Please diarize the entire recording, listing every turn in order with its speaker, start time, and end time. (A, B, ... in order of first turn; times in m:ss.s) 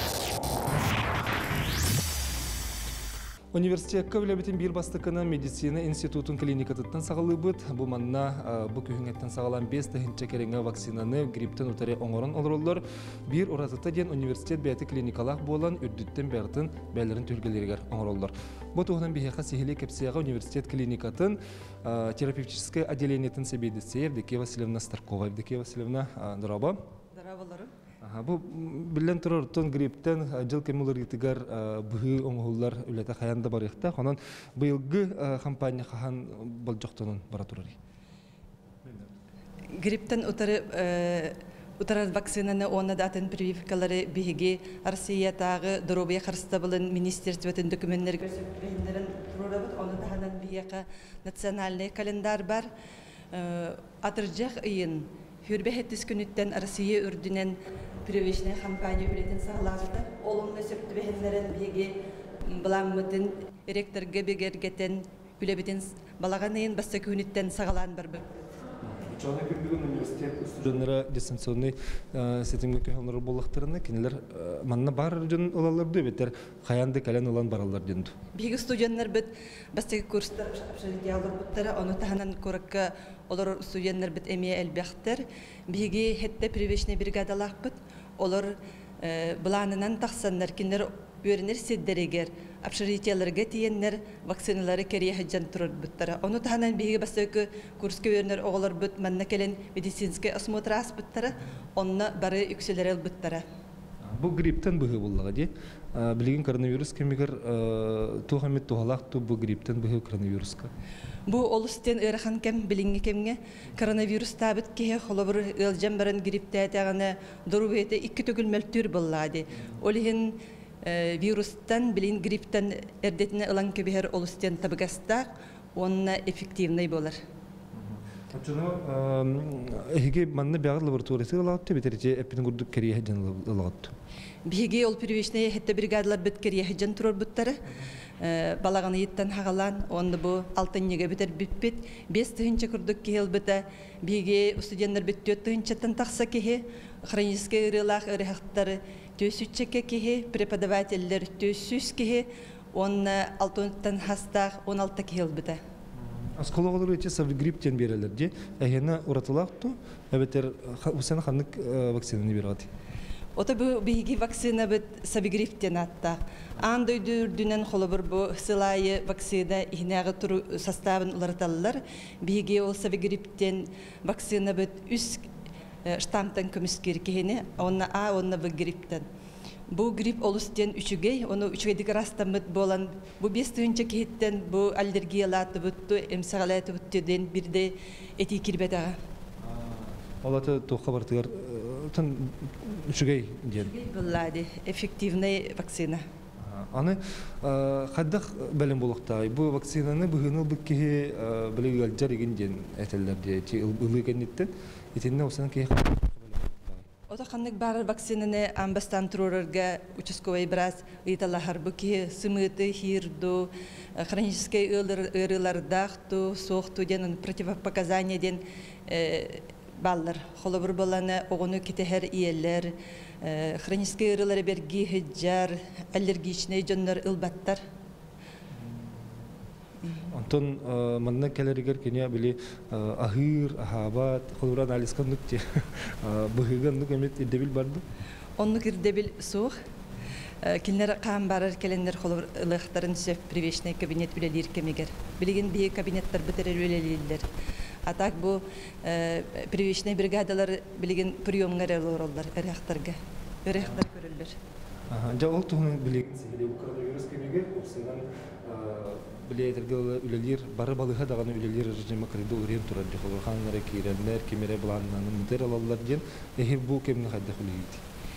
0:03.5-0:26.8 A
0:27.1-0:27.7 B
0:28.0-0:37.8 A
0:39.7-0:52.7 B
0:53.3-1:08.3 B
1:08.8-1:18.1 A
1:18.3-1:43.4 B
1:44.0-1:50.7 A
1:51.3-2:07.2 B
2:07.7-2:14.0 A
2:14.4-2:17.6 B
2:18.2-2:35.6 B
2:36.0-2:42.7 A
2:43.4-2:55.3 B
2:55.8-2:59.0 B
2:59.7-3:09.0 B
3:09.4-3:13.7 A
3:13.5-3:16.0 B
3:16.4-3:26.9 A
3:27.1-3:47.6 B
3:50.1-3:57.8 A
3:58.4-3:59.6 B
4:00.4-4:07.3 B
4:07.8-4:14.4 B
4:14.9-4:27.8 A